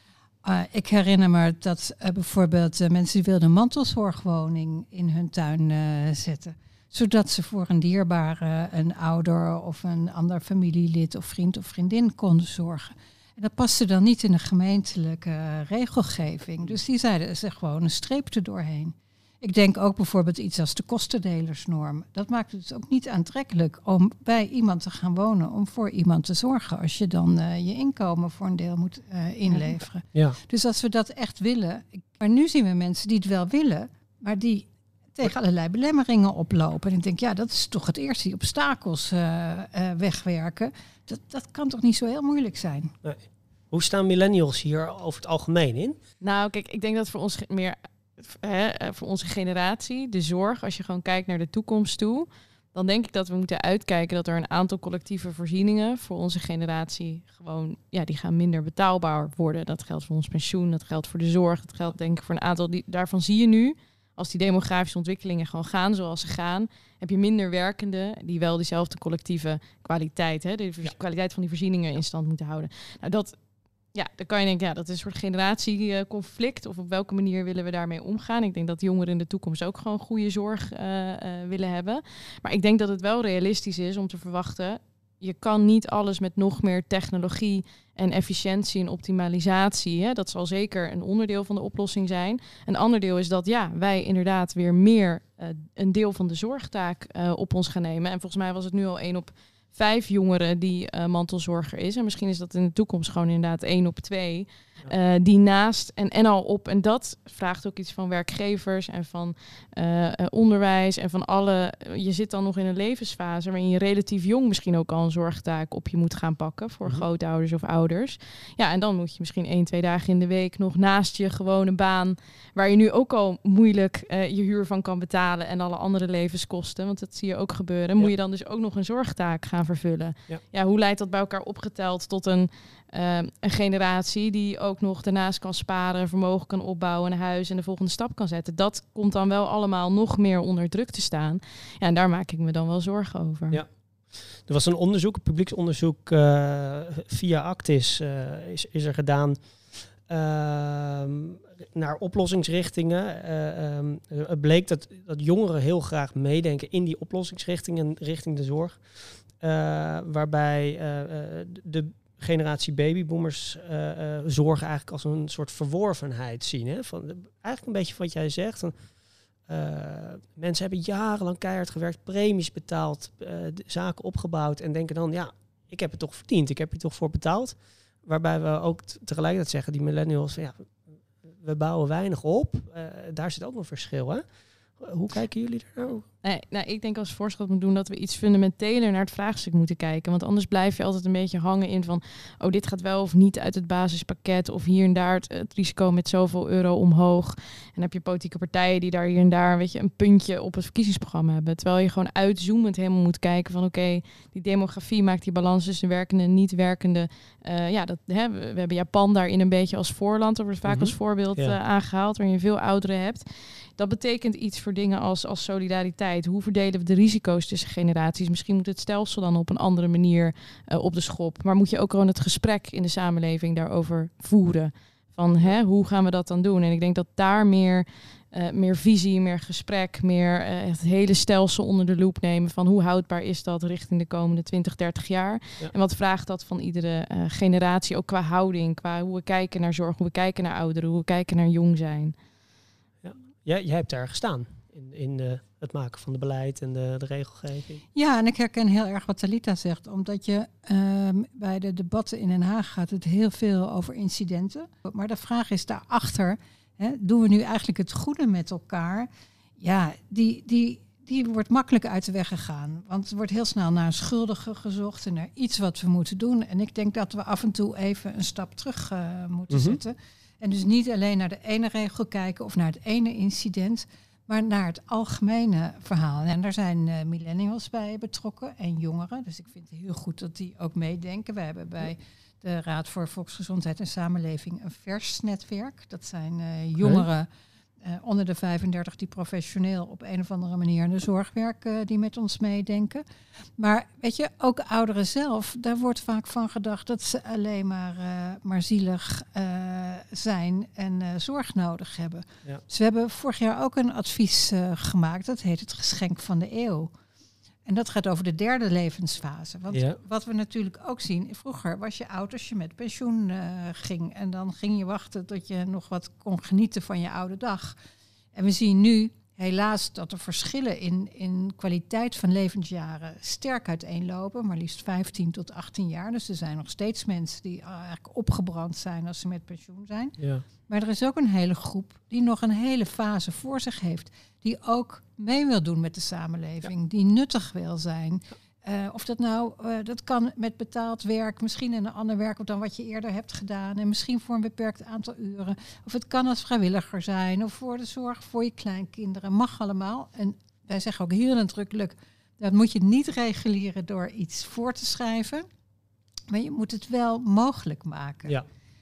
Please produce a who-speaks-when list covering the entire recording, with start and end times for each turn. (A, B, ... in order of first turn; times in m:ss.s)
0:00.4-0:42.9 A
0:29.5-0:29.8 B
0:43.0-0:46.0 C
0:46.2-1:13.4 B
1:13.9-2:23.6 B
2:23.5-2:48.7 C
2:49.4-3:04.2 C
3:04.8-3:06.1 C
3:06.2-4:02.1 B
3:30.6-3:31.6 C
4:03.0-4:07.8 C
4:07.9-4:47.3 A
4:29.5-4:29.8 C
4:46.8-4:47.1 C
4:47.8-4:53.0 A
4:53.6-5:06.9 A
5:07.6-5:17.8 A
5:09.7-5:10.0 C
5:18.3-5:55.4 A
5:30.2-5:30.4 C
5:56.3-5:58.4 A